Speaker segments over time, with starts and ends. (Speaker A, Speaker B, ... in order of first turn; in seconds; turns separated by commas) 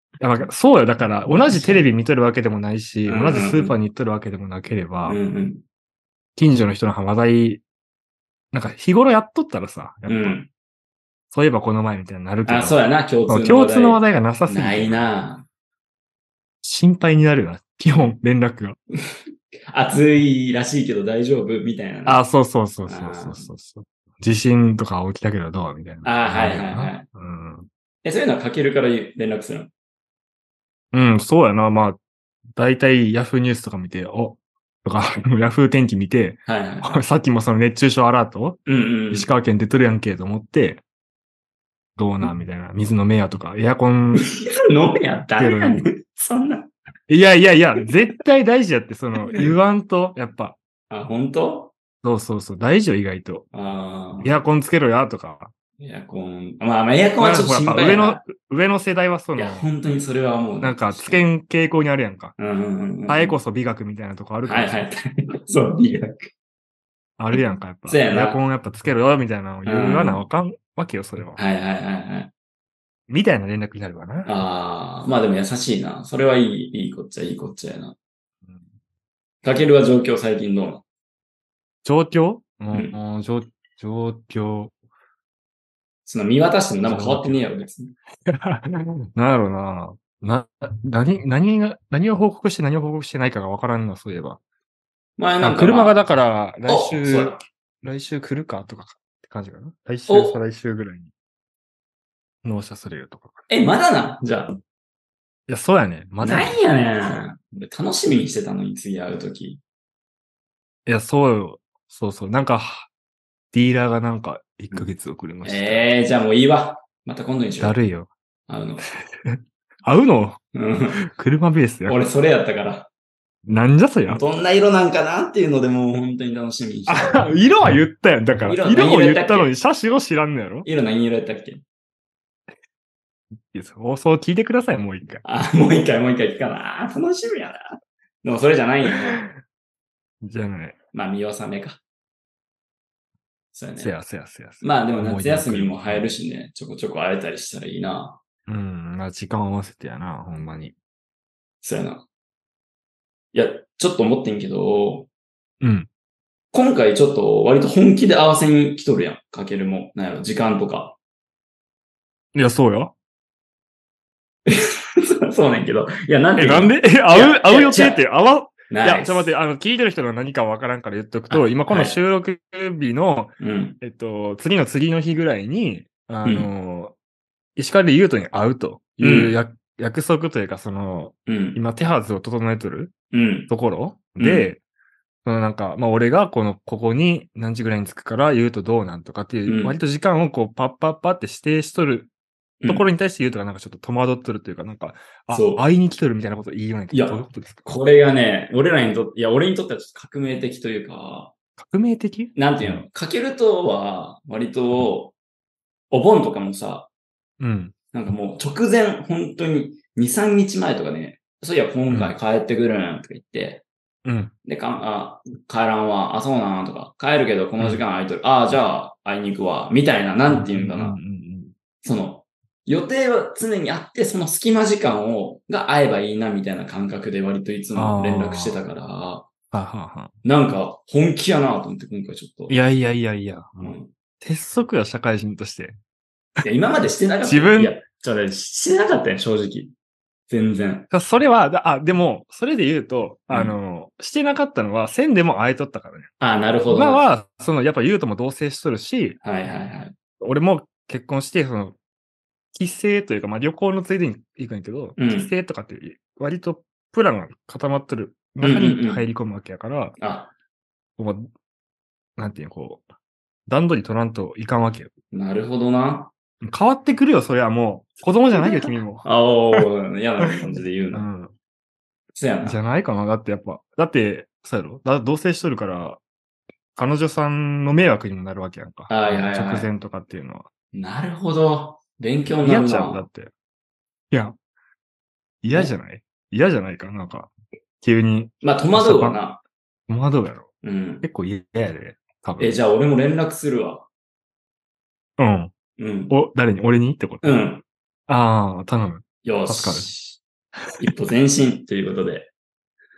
Speaker A: 0.2-5.2, Speaker B: 1.5-1.9, Speaker B: 3.0-3.7, Speaker B: 5.1-5.6, Speaker A: 6.3-7.6, Speaker A: 8.5-10.4, Speaker B: 10.1-10.5, Speaker A: 11.3-15.0, Speaker B: 12.4-15.4, Speaker A: 16.6-18.8, Speaker B: 19.7-22.2, Speaker A: 22.1-27.7, Speaker B: 22.9-23.5, Speaker B: 26.0-27.1, Speaker B: 28.0-29.7, Speaker A: 30.9-32.0, Speaker A: 32.5-40.8, Speaker B: 36.5-37.0, Speaker B: 38.7-39.3, Speaker A: 42.0-44.2, Speaker B: 44.1-46.7, Speaker A: 45.4-45.9, Speaker A: 47.1-50.5, Speaker B: 49.1-49.5, Speaker B: 50.9-51.7, Speaker A: 52.0-53.5, Speaker B: 53.5-54.4, Speaker A: 54.2-55.5, Speaker B: 55.8-58.2, Speaker A: 57.2-59.7, Speaker B: 59.4-61.3, Speaker A: 60.6-62.3, Speaker B: 62.4-63.4, Speaker A: 63.1-64.8, Speaker B: 64.4-66.3, Speaker A: 67.2-71.4, Speaker B: 67.9-68.4, Speaker B: 69.6-70.2, Speaker B: 71.3-72.3, Speaker A: 73.1-74.3, Speaker B: 74.2-77.9, Speaker B: 79.4-80.8, Speaker A: 81.8-84.7, Speaker B: 82.7-83.0, Speaker B: 86.0-87.9, Speaker A: 86.8-87.5, Speaker A: 88.3-94.4, Speaker B: 95.2-96.0, Speaker A: 95.4-101.1, Speaker B: 96.7-97.4, Speaker B: 100.1-100.4, Speaker A: 102.4-103.5, Speaker B: 103.5-104.6, Speaker A: 105.5-106.6, Speaker B: 106.2-109.6, Speaker A: 110.8-112.9, Speaker A: 113.5-116.0, Speaker B: 115.4-117.8, Speaker A: 117.6-118.1, Speaker B: 118.5-118.8, Speaker A: 119.2-120.4, Speaker B: 120.5-121.0, Speaker A: 121.0-122.0, Speaker B: 121.8-122.9, Speaker A: 123.5-124.2, Speaker B: 124.0-127.3, Speaker A: 126.9-130.7, Speaker B: 128.4-129.5, Speaker B: 130.6-131.6, Speaker A: 133.5-135.2, Speaker B: 135.2-137.7, Speaker B: 138.2-139.2, Speaker A: 140.2-140.8, Speaker B: 140.9-141.8, Speaker B: 143.5-143.9, Speaker A: 143.8-146.2, Speaker B: 144.6-148.2, Speaker A: 148.5-150.7, Speaker B: 151.6-152.1, Speaker B: 153.3-155.1, Speaker A: 155.6-155.9, Speaker B: 156.5-161.0, Speaker A: 162.3-162.9, Speaker B: 164.5-168.1, Speaker A: 166.4-176.9, Speaker B: 168.7-169.3, Speaker B: 171.3-171.9, Speaker B: 173.4-173.8, Speaker B: 176.2-176.5, Speaker A: 177.6-182.9, Speaker B: 179.0-179.3, Speaker B: 181.3-181.6, Speaker B: 183.1-183.5, Speaker A: 183.5-184.6, Speaker B: 184.2-184.5, Speaker A: 185.2-192.1, Speaker B: 189.4-189.8, Speaker A: 192.7-197.7, Speaker B: 195.3-195.7, Speaker B: 196.9-201.3, Speaker A: 201.6-202.8, Speaker B: 202.3-205.1, Speaker B: 205.9-206.9, Speaker A: 207.4-207.7, Speaker B: 207.9-213.6, Speaker A: 211.9-212.1, Speaker A: 214.0-214.3, Speaker B: 214.4-221.0, Speaker A: 220.3-221.5, Speaker B: 221.8-229.2, Speaker A: 227.7-228.6, Speaker A: 229.5-230.1, Speaker B: 230.2-232.5, Speaker A: 232.5-235.8, Speaker B: 233.6-233.9, Speaker B: 236.4-239.7, Speaker A: 237.2-237.8, Speaker B: 240.3-240.9, Speaker A: 240.9-246.1, Speaker B: 243.3-243.6, Speaker B: 246.2-247.1, Speaker A: 246.7-249.2, Speaker B: 249.2-249.9, Speaker A: 250.2-251.8, Speaker A: 252.5-260.0, Speaker B: 255.0-255.3, Speaker B: 258.4-259.1, Speaker B: 260.0-260.3, Speaker A: 261.0-261.3, Speaker A: 262.2-262.8, Speaker A: 263.5-264.9, Speaker B: 265.1-266.1, Speaker A: 266.4-269.6, Speaker B: 268.3-271.1, Speaker A: 270.9-271.3, Speaker B: 272.1-272.6, Speaker A: 272.4-276.0, Speaker A: 276.8-280.4, Speaker B: 278.9-279.7, Speaker B: 280.7-283.1, Speaker A: 282.4-283.3, Speaker A: 284.1-284.4, Speaker A: 285.4-289.2, Speaker B: 288.4-289.4, Speaker A: 289.9-290.5, Speaker B: 290.6-291.1, Speaker A: 291.0-292.6, Speaker B: 292.4-293.9, Speaker A: 295.2-295.5, Speaker B: 295.8-296.1, Speaker A: 296.1-297.4, Speaker B: 297.2-297.6, Speaker A: 298.1-299.9, Speaker B: 299.2-300.2, Speaker B: 300.8-302.3